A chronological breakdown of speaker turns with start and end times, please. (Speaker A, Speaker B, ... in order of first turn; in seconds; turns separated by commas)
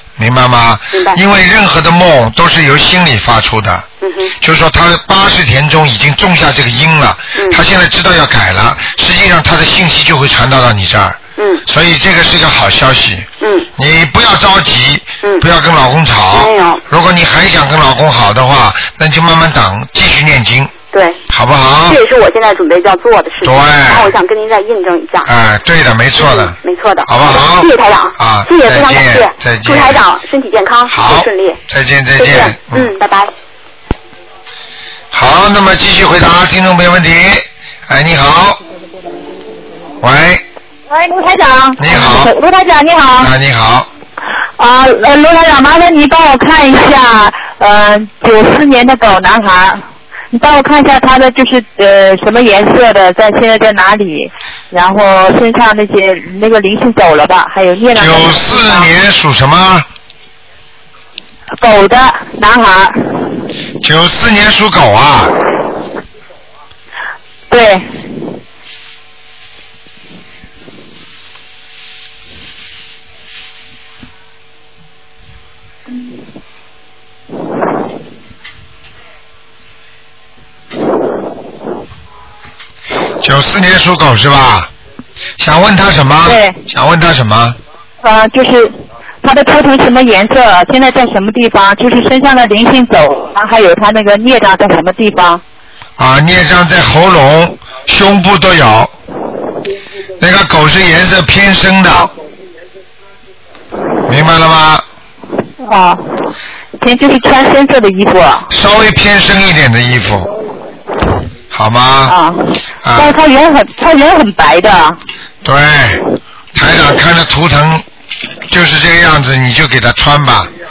Speaker A: 0.2-3.9, Speaker B: 0.9-1.2, Speaker B: 4.0-4.3, Speaker A: 4.4-20.7, Speaker B: 7.3-7.6, Speaker B: 11.4-11.6, Speaker B: 13.4-13.7, Speaker B: 16.3-16.8, Speaker B: 20.9-21.2, Speaker A: 21.3-22.0, Speaker B: 21.9-25.3, Speaker A: 23.4-24.1, Speaker A: 25.2-30.0, Speaker B: 26.2-31.6, Speaker A: 30.9-32.9, Speaker B: 32.2-33.3, Speaker A: 35.1-38.6, Speaker A: 40.0-40.4, Speaker C: 40.9-43.3, Speaker A: 41.8-42.3, Speaker A: 43.2-43.9, Speaker C: 44.6-58.9, Speaker A: 57.9-59.9, Speaker C: 61.6-63.3, Speaker A: 63.8-65.3, Speaker C: 67.5-67.9, Speaker A: 83.2-84.7, Speaker A: 85.4-87.6, Speaker C: 86.2-86.6, Speaker C: 88.0-95.4, Speaker A: 96.0-98.9, Speaker A: 100.2-102.1, Speaker A: 104.0-104.8, Speaker C: 105.6-108.5, Speaker A: 108.5-110.3, Speaker A: 111.5-112.2, Speaker C: 112.0-115.0, Speaker A: 112.8-113.1, Speaker A: 115.4-116.0, Speaker A: 116.5-117.8, Speaker A: 118.5-120.5